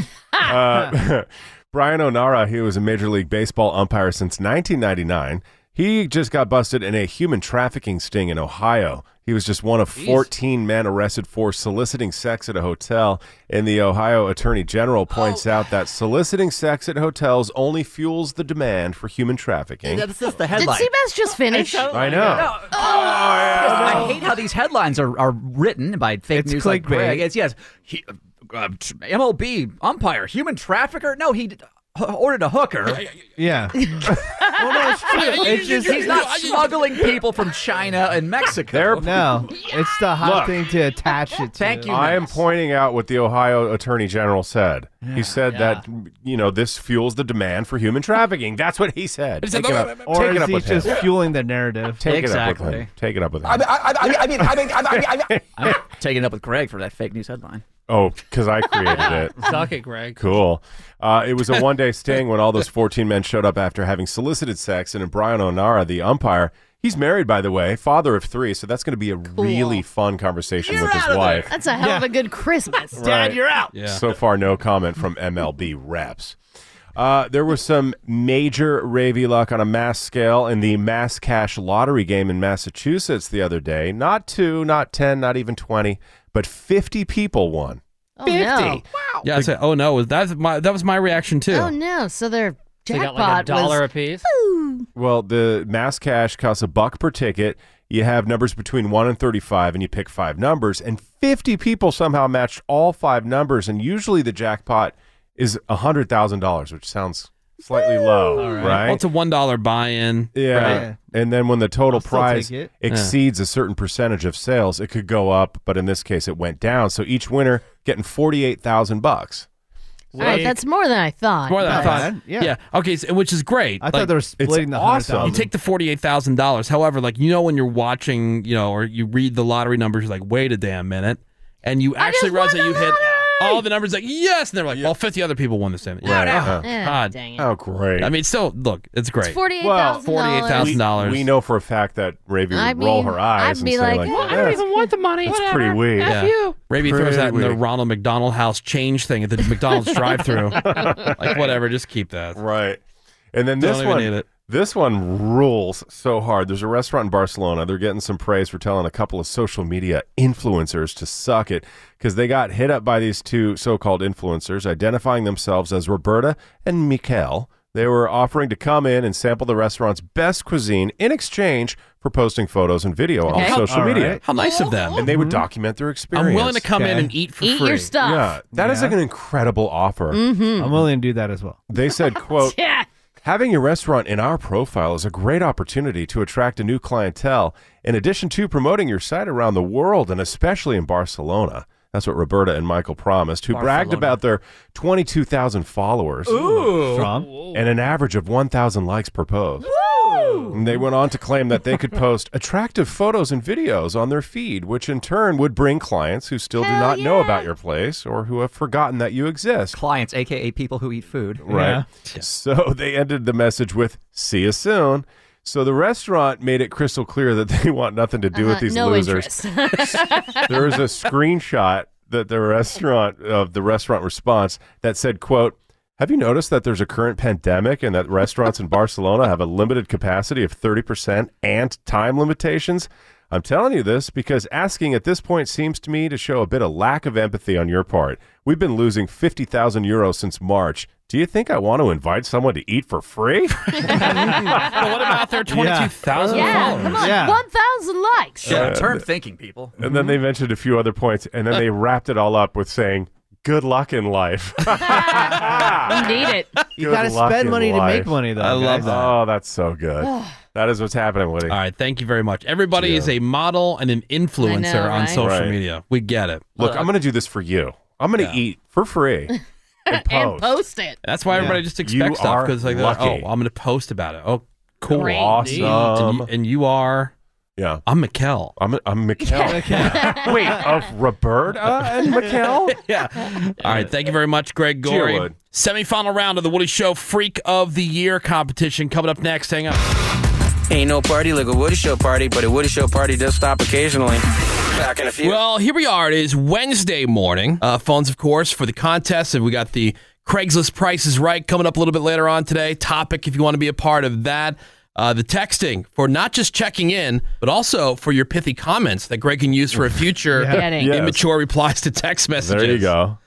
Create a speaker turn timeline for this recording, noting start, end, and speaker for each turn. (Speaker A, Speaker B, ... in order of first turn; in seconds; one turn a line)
Speaker A: 0.4-20.1
Speaker B: 9.9-10.2
Speaker C: 19.8-20.9
Speaker D: 20.5-23.6
Speaker C: 21.5-33.0
Speaker A: 21.9-24.1
Speaker E: 26.3-27.3
Speaker E: 33.4-36.2
Speaker D: 33.8-35.1
Speaker F: 35.1-37.2
Speaker C: 35.3-39.2
Speaker A: 38.7-39.5
Speaker E: 39.0-42.1
Speaker A: 40.2-40.6
Speaker C: 41.5-42.4
Speaker A: 41.9-51.1
Speaker C: 45.0-45.4
Speaker B: 45.5-45.8
Speaker F: 49.4-50.1
Speaker E: 50.0-52.0
Speaker A: 52.0-55.8
Speaker C: 52.0-52.9
Speaker C: 53.4-57.6
Speaker A: 57.9-59.5
Speaker B: 58.9-60.2
Speaker A: 60.1-71.5
Speaker D: 69.5-69.8
Speaker C: 70.6-71.6
Speaker D: 71.5-73.0
Speaker E: 71.8-72.1
Speaker E: 72.9-73.7
Speaker A: 73.0-76.4
Speaker F: 73.7-74.0
Speaker A: 77.0-87.8
Speaker D: 88.2-88.8
Speaker A: 88.4-89.5
Speaker F: 89.2-91.7
Speaker D: 91.5-94.8
Speaker B: 92.9-94.2
Speaker A: 95.0-109.0
Speaker D: 107.7-108.5
Speaker E: 108.4-108.8
Speaker B: 108.4-108.8
Speaker F: 108.7-110.8
Speaker A: 110.3-119.5
Speaker E: 110.5-111.0
Speaker E: 111.9-112.7
Speaker F: 112.9-113.1
Speaker E: 120.1-120.6
Speaker D: 120.2-122.1
Speaker F: 121.5-124.1
Speaker E: 121.6-122.5
Speaker E: 123.8-125.5
Speaker A: 124.4-125.5
Speaker F: 125.2-137.2
Speaker D: 132.0-133.6
Speaker A: 136.0-136.7
Speaker D: 136.2-137.5
Speaker A: 137.3-138.1
Speaker F: 138.0-139.4
Speaker D: 139.2-140.8
Speaker A: 139.6-144.7
Speaker F: 140.0-141.3
Speaker D: 142.5-144.9
Speaker B: 144.1-146.6
Speaker A: 145.2-146.2
Speaker F: 146.0-152.4
Speaker A: 146.7-147.6
Speaker A: 150.5-151.6
Speaker A: 152.3-152.8
Speaker A: 153.3-174.2
Speaker F: 153.6-154.2
Speaker D: 173.3-173.7
Speaker F: 173.3-173.7
Speaker E: 173.5-174.2
Speaker F: 174.2-175.1
Speaker D: 174.4-174.7
Speaker A: 174.9-176.7
Speaker E: 175.0-175.4
Speaker F: 176.1-177.9
Speaker E: 176.7-177.1
Speaker D: 177.4-178.4
Speaker A: 178.0-180.2
Speaker E: 178.5-179.0
Speaker D: 180.1-180.8
Speaker E: 180.6-181.6
Speaker A: 181.7-182.6
Speaker D: 181.9-182.9
Speaker A: 183.2-199.7
Speaker C: 193.5-194.2
Speaker C: 196.3-197.0
Speaker E: 196.9-197.3
Speaker B: 197.0-197.6
Speaker D: 199.6-200.5
Speaker C: 199.9-200.6
Speaker A: 200.5-209.8
Speaker D: 206.6-207.5
Speaker C: 209.7-211.5
Speaker A: 211.4-244.8
Speaker E: 211.5-211.8
Speaker D: 218.3-220.8
Speaker D: 243.8-244.6
Speaker F: 243.9-247.0
Speaker E: 244.0-244.7
Speaker E: 245.5-247.4
Speaker A: 246.1-247.1
Speaker D: 246.3-248.7
Speaker F: 248.4-248.7
Speaker A: 248.4-249.0
Speaker C: 248.4-249.8
Speaker A: 249.8-256.2
Speaker E: 249.8-250.1
Speaker D: 254.8-256.5
Speaker A: 256.8-258.1
Speaker E: 256.8-258.9
Speaker F: 258.4-259.2
Speaker A: 258.8-261.6
Speaker D: 260.0-260.4
Speaker F: 261.5-266.6
Speaker A: 262.7-263.1
Speaker D: 264.4-265.2
Speaker A: 265.1-265.6
Speaker A: 266.6-269.3
Speaker C: 266.6-266.9
Speaker D: 269.9-271.0
Speaker A: 269.9-270.5
Speaker F: 271.0-277.1
Speaker A: 271.3-273.3
Speaker D: 274.9-275.8
Speaker A: 274.9-276.3
Speaker B: 275.4-275.8
Speaker A: 277.6-277.8
Speaker F: 277.9-278.5
Speaker A: 278.6-282.8
Speaker D: 279.2-280.6
Speaker E: 279.4-280.5
Speaker F: 279.8-280.1
Speaker F: 282.7-289.8
Speaker A: 284.8-285.3
Speaker G: 290.7-295.4
Speaker F: 295.2-312.9
Speaker E: 310.3-310.7
Speaker D: 310.5-310.9
Speaker A: 310.8-311.2
Speaker A: 312.4-313.2